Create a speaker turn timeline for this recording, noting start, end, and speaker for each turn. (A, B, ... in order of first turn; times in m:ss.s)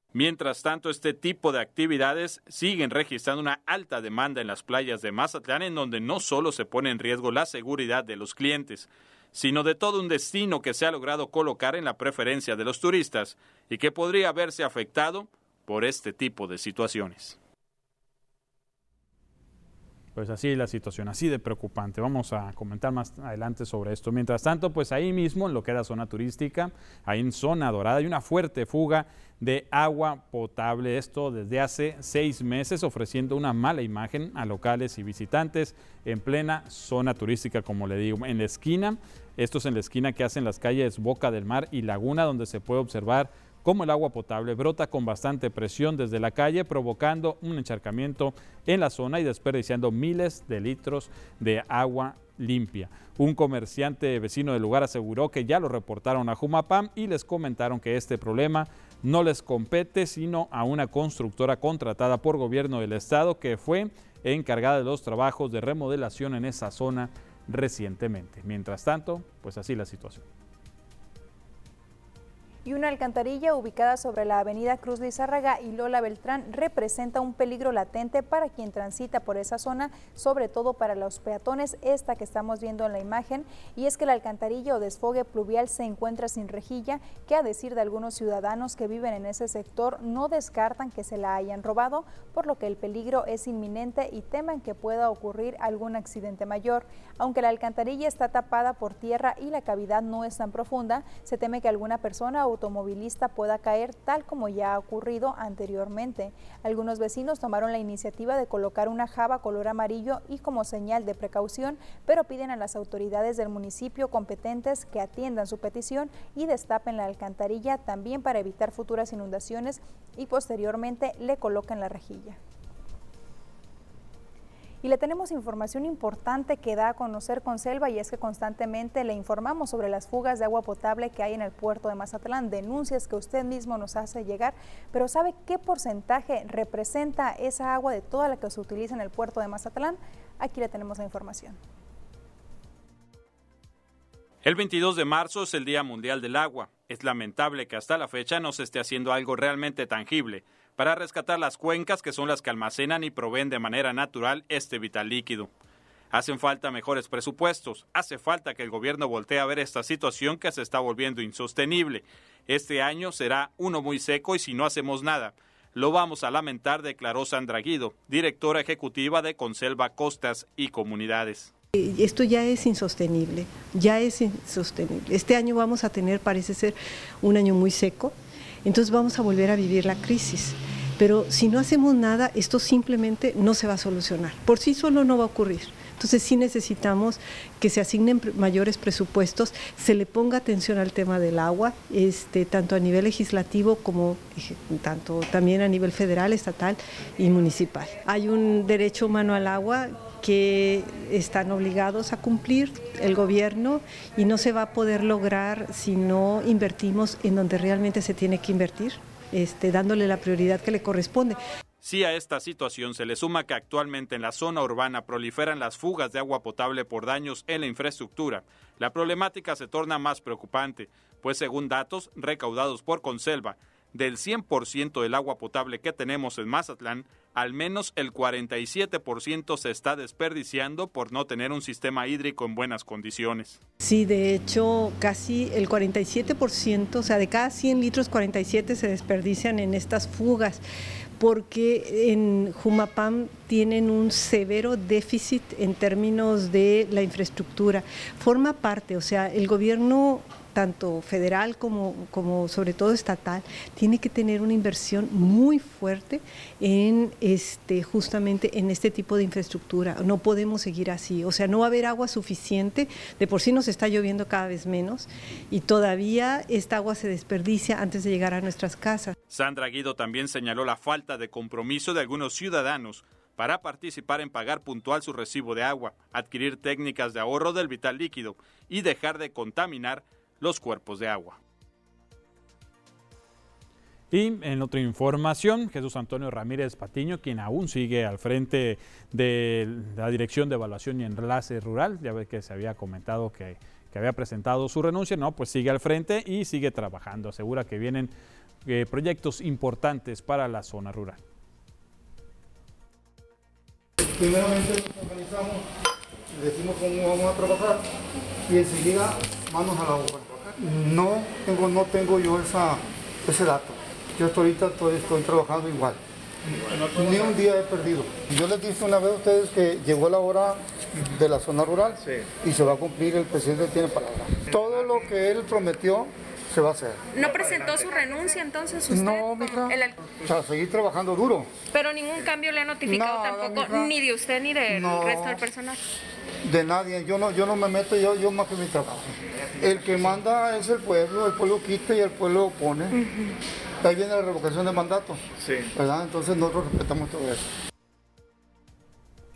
0:00.1-0:17.4 A
0:20.1-1:10.2 A
1:12.6-2:02.4 B
2:04.8-2:21.6 B
2:24.4-2:35.5 A
2:36.1-2:51.5 A
2:51.7-3:31.4 C
3:31.8-3:53.6 A
3:53.8-4:00.6 C
4:01.2-4:29.2 C
4:29.3-4:41.4 A
4:44.1-4:58.1 A
4:58.6-5:01.2 A
5:04.0-5:05.7 D
5:06.3-5:07.8 D
5:08.5-5:16.0 D
5:16.8-5:27.0 D
5:27.1-5:30.0 E
5:28.9-5:31.5 D
5:31.7-5:35.8 E
5:32.8-5:34.0 D
5:34.7-5:35.5 D
5:36.4-5:43.0 D
5:42.9-5:43.3 E
5:43.8-5:45.2 D
5:45.7-5:47.4 D